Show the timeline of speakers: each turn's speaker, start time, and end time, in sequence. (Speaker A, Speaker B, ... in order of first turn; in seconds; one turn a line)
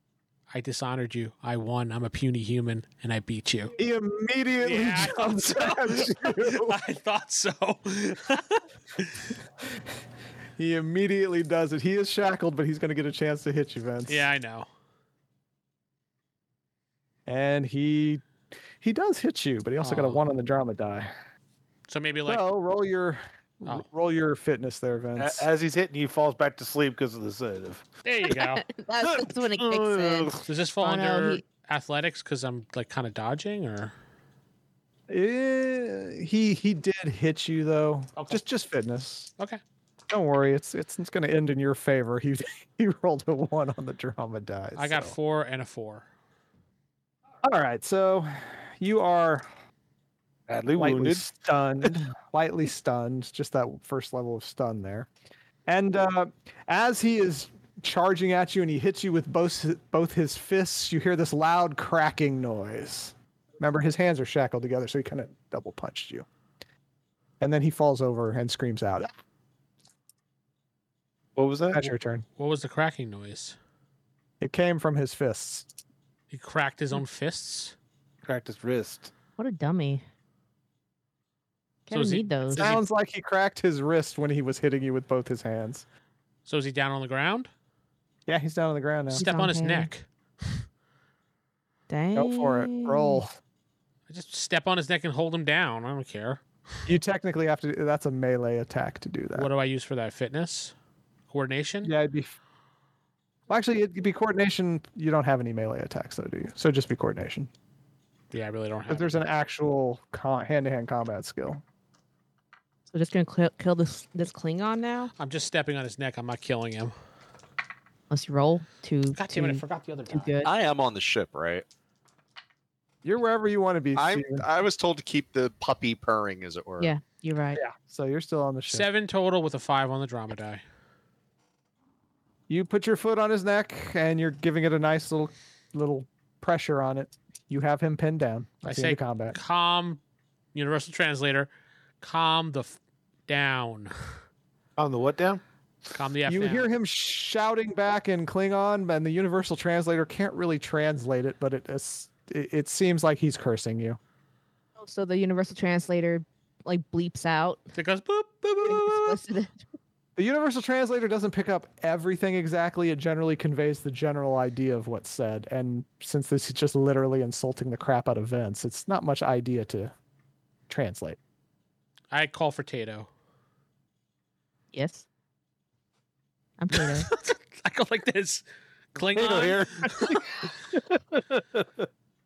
Speaker A: 0.5-3.8
Speaker B: 3.8-6.8
Speaker A: 4.6-9.3
Speaker B: 10.6-14.3
Speaker A: 14.1-14.7
Speaker B: 17.3-18.2
Speaker B: 18.8-21.1
Speaker A: 19.8-20.2
Speaker A: 21.9-22.4
Speaker B: 22.2-25.5
Speaker C: 25.2-27.9
Speaker A: 28.0-28.6
Speaker D: 28.3-31.4
Speaker C: 29.0-30.4
Speaker A: 30.4-33.9
Speaker B: 35.1-39.3
Speaker A: 38.2-38.4
Speaker B: 40.1-45.1
Speaker A: 44.8-46.1
Speaker B: 47.4-49.5
Speaker C: 50.5-51.2
Speaker B: 50.8-55.1
Speaker B: 55.7-66.3
Speaker B: 67.4-69.1
Speaker C: 71.4-71.8
Speaker B: 71.7-72.2
Speaker A: 72.4-73.6
Speaker B: 74.4-75.7
Speaker A: 76.3-77.8
Speaker C: 78.2-79.1
Speaker D: 79.4-80.0
Speaker D: 81.9-82.8
Speaker A: 81.9-82.8
Speaker B: 82.5-85.8
Speaker A: 86.5-87.5
Speaker B: 88.3-89.3
Speaker D: 89.1-89.9
Speaker A: 89.1-90.1
Speaker D: 91.9-93.2
Speaker B: 92.2-93.4
Speaker A: 94.1-96.4
Speaker B: 96.9-99.5
Speaker A: 99.3-100.7
Speaker A: 101.3-101.9
Speaker B: 101.8-102.3
Speaker B: 103.5-107.5
Speaker A: 108.3-109.2
Speaker B: 108.9-111.6
Speaker D: 112.9-115.1
Speaker A: 115.2-116.9
Speaker D: 118.1-120.5
Speaker A: 119.2-120.3
Speaker E: 120.4-121.7
Speaker B: 123.0-124.5
Speaker E: 124.0-126.9
Speaker D: 126.8-127.6
Speaker B: 127.6-128.9
Speaker A: 128.7-130.6
Speaker B: 132.5-139.4
Speaker A: 138.6-140.0
Speaker A: 140.5-143.9
Speaker C: 144.8-145.4
Speaker A: 145.9-146.7
Speaker B: 146.2-154.0
Speaker D: 154.8-157.7
Speaker A: 157.8-159.2
Speaker D: 158.7-159.7
Speaker B: 160.2-169.9
Speaker B: 170.7-171.2
Speaker A: 172.1-173.1
Speaker D: 174.7-175.1
Speaker D: 176.6-177.1
Speaker A: 176.7-180.2
Speaker C: 179.1-180.3
Speaker C: 180.9-181.9